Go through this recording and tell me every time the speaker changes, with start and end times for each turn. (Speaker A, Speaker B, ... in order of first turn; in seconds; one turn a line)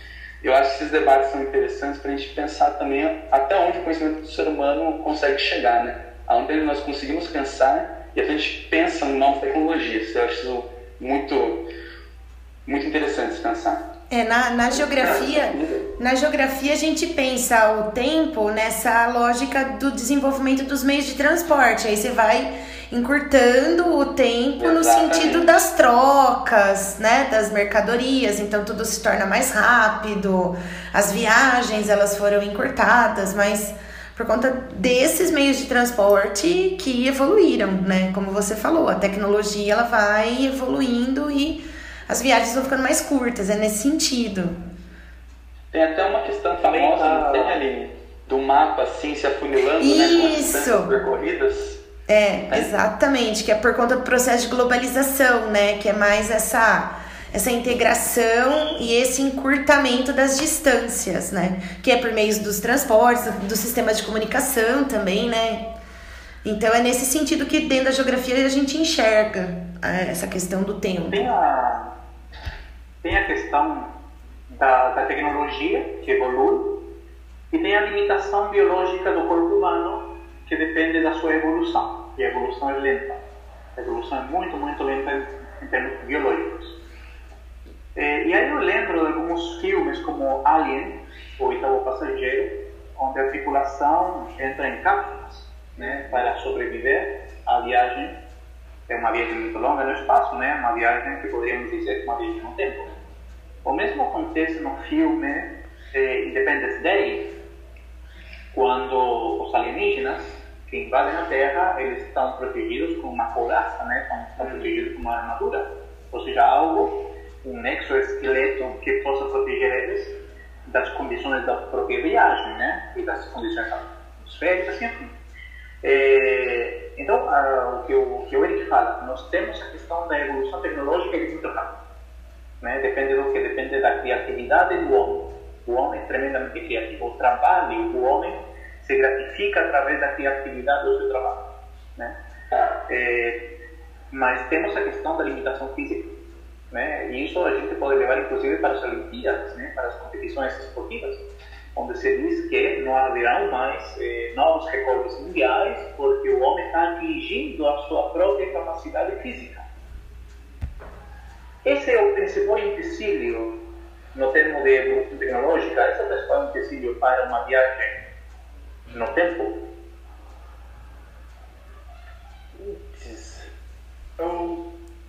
Speaker A: 0.4-11.7
Speaker A: 12.7-13.8
Speaker B: 14.1-44.6
Speaker A: 14.7-15.9
Speaker A: 24.6-25.5
Speaker A: 45.7-51.8
Speaker C: 46.6-47.6
Speaker B: 49.8-50.9
Speaker B: 52.1-65.7
Speaker B: 66.4-71.3
Speaker C: 71.1-71.9
Speaker C: 73.0-73.9
Speaker C: 74.5-76.8
Speaker C: 77.5-83.2
Speaker C: 83.8-86.8
Speaker C: 87.9-98.2
Speaker D: 95.8-96.2
Speaker C: 98.9-102.9
Speaker C: 103.6-107.3
Speaker C: 108.5-125.1
Speaker D: 114.4-114.7
Speaker C: 125.8-131.8
Speaker C: 132.6-142.2
Speaker C: 142.9-143.5
Speaker C: 144.1-146.1
Speaker C: 146.7-159.7
Speaker C: 161.6-163.6
Speaker C: 164.1-168.0
Speaker C: 168.9-169.6
Speaker D: 172.5-173.5
Speaker D: 174.2-174.6